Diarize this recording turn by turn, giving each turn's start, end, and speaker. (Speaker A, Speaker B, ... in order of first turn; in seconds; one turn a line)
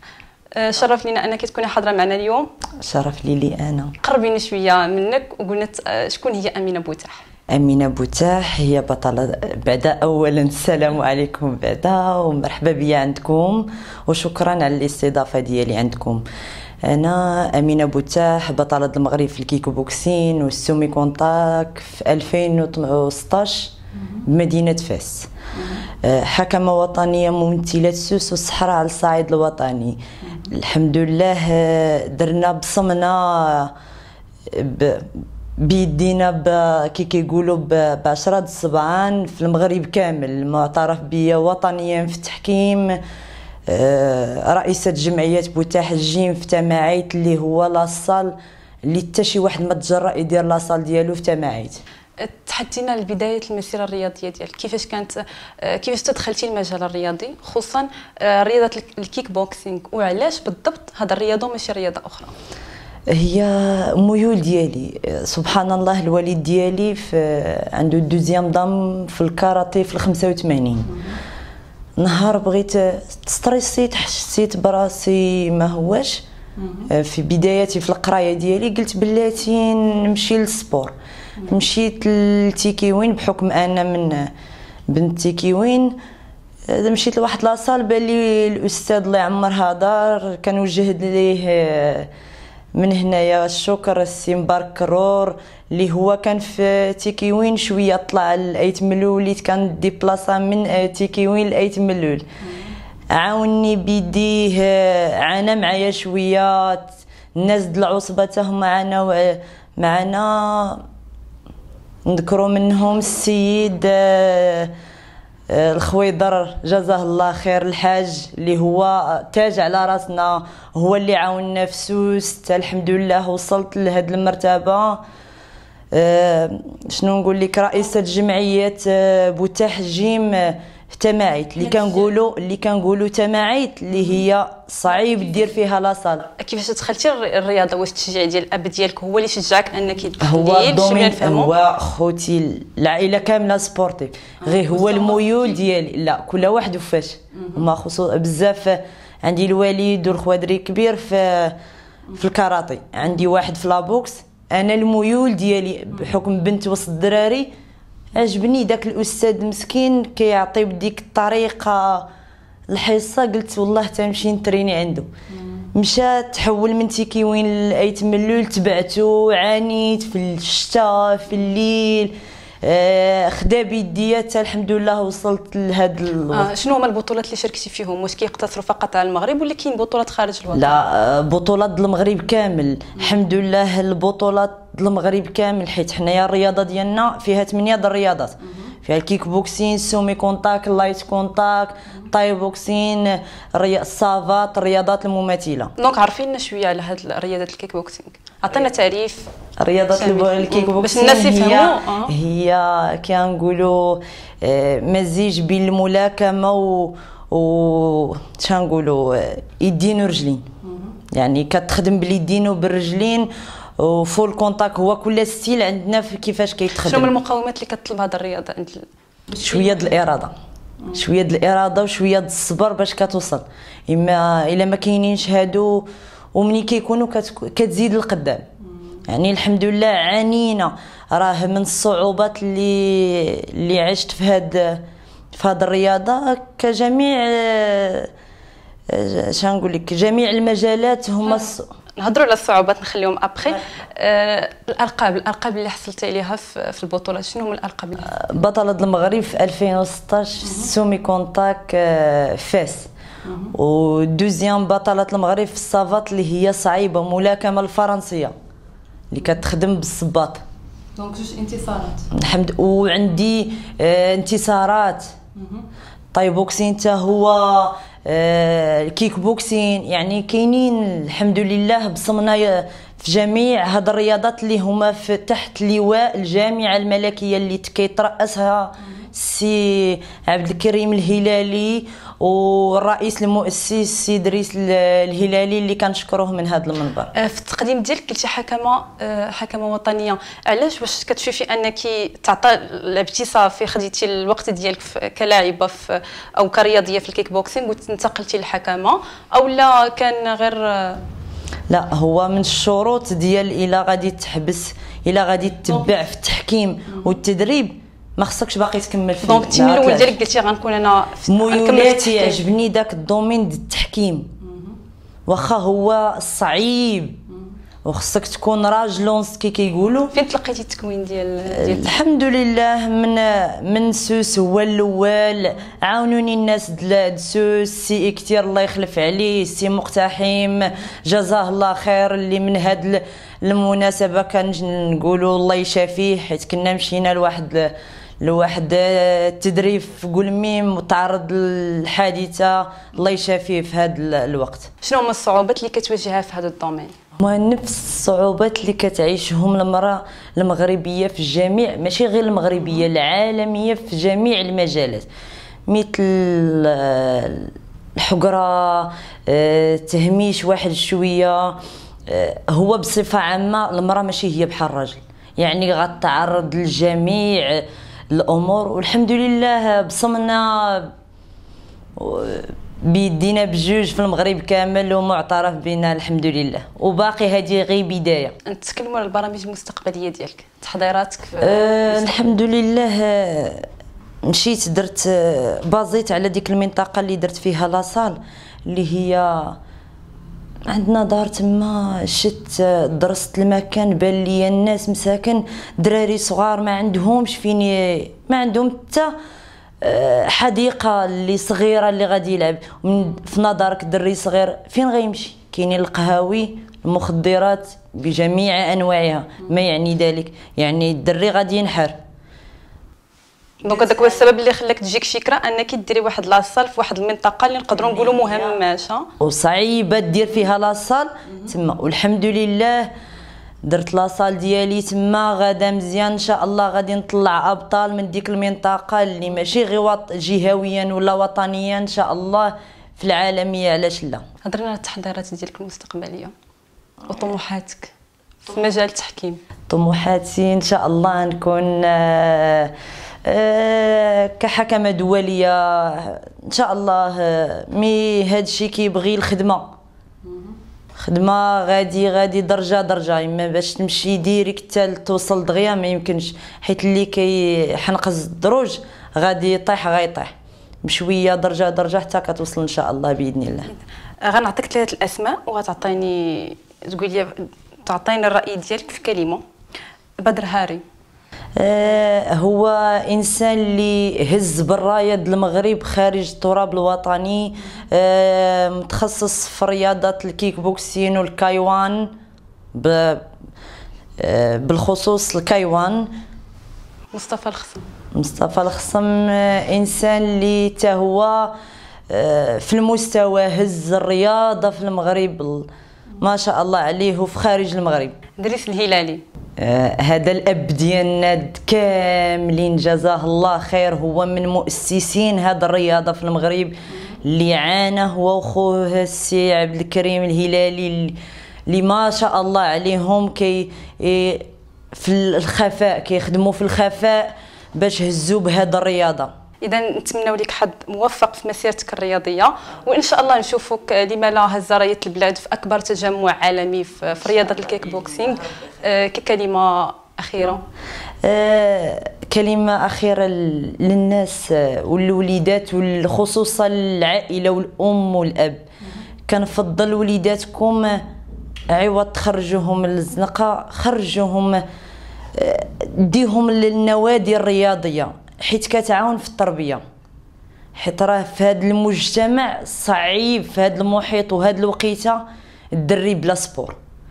Speaker A: 0.6-2.5
Speaker B: 2.8-3.9
Speaker A: 4.0-7.2
Speaker B: 7.5-16.2
Speaker B: 16.8-25.3
Speaker B: 26.0-33.7
Speaker B: 34.5-43.0
Speaker B: 43.7-51.8
Speaker A: 52.2-62.3
Speaker B: 63.1-70.9
Speaker B: 72.0-76.2
Speaker B: 76.9-80.9
Speaker B: 81.5-84.3
Speaker B: 84.9-86.0
Speaker B: 86.7-92.1
Speaker B: 92.7-102.2
Speaker B: 103.1-110.8
Speaker B: 112.0-114.7
Speaker B: 115.5-125.0
Speaker B: 125.9-136.3
Speaker A: 136.4-141.5
Speaker B: 140.2-151.6
Speaker A: 144.5-145.4
Speaker B: 152.1-157.5
Speaker B: 158.1-162.1
Speaker B: 162.7-165.1
Speaker B: 165.7-176.5
Speaker A: 176.3-180.8
Speaker B: 180.5-195.7
Speaker A: 195.8-199.3
Speaker B: 199.6-210.5
Speaker A: 199.9-202.1
Speaker B: 211.1-217.1
Speaker A: 216.8-219.9
Speaker B: 219.4-220.3
Speaker B: 220.9-228.4
Speaker B: 229.1-238.1
Speaker B: 238.9-241.7
Speaker A: 242.0-248.1
Speaker B: 248.1-252.9
Speaker A: 253.2-253.5
Speaker B: 253.5-258.3
Speaker B: 259.1-260.4
Speaker A: 260.9-262.1
Speaker B: 262.1-265.1
Speaker B: 266.1-287.1
Speaker A: 287.1-301.0
Speaker B: 301.7-310.1
Speaker A: 309.2-312.4
Speaker B: 311.3-314.3
Speaker B: 315.3-317.2
Speaker B: 317.8-320.1
Speaker A: 320.1-321.9
Speaker B: 321.5-344.7
Speaker A: 344.8-346.9
Speaker B: 347.2-355.1
Speaker B: 355.7-370.9
Speaker B: 371.9-378.3
Speaker A: 378.4-382.3
Speaker B: 381.4-383.7
Speaker B: 384.2-389.6
Speaker B: 390.6-399.1
Speaker B: 399.8-412.0
Speaker A: 413.6-419.1
Speaker B: 418.1-418.4
Speaker B: 419.2-422.9
Speaker B: 423.6-434.2
Speaker A: 434.4-436.3
Speaker A: 437.1-437.9
Speaker A: 438.4-439.4
Speaker B: 439.7-442.7
Speaker B: 443.2-449.7
Speaker B: 450.9-460.3
Speaker B: 460.8-463.7
Speaker A: 463.7-469.4
Speaker A: 470.2-470.8
Speaker B: 471.6-482.1
Speaker B: 482.7-483.2
Speaker B: 484.2-486.1
Speaker A: 487.1-487.8
Speaker B: 488.1-491.6
Speaker B: 492.1-495.7
Speaker B: 496.2-498.1
Speaker A: 498.4-499.2
Speaker B: 499.6-519.3
Speaker A: 519.6-530.6
Speaker B: 531.2-538.6
Speaker B: 539.3-541.0
Speaker B: 541.7-544.6
Speaker B: 545.3-549.8
Speaker B: 550.8-556.8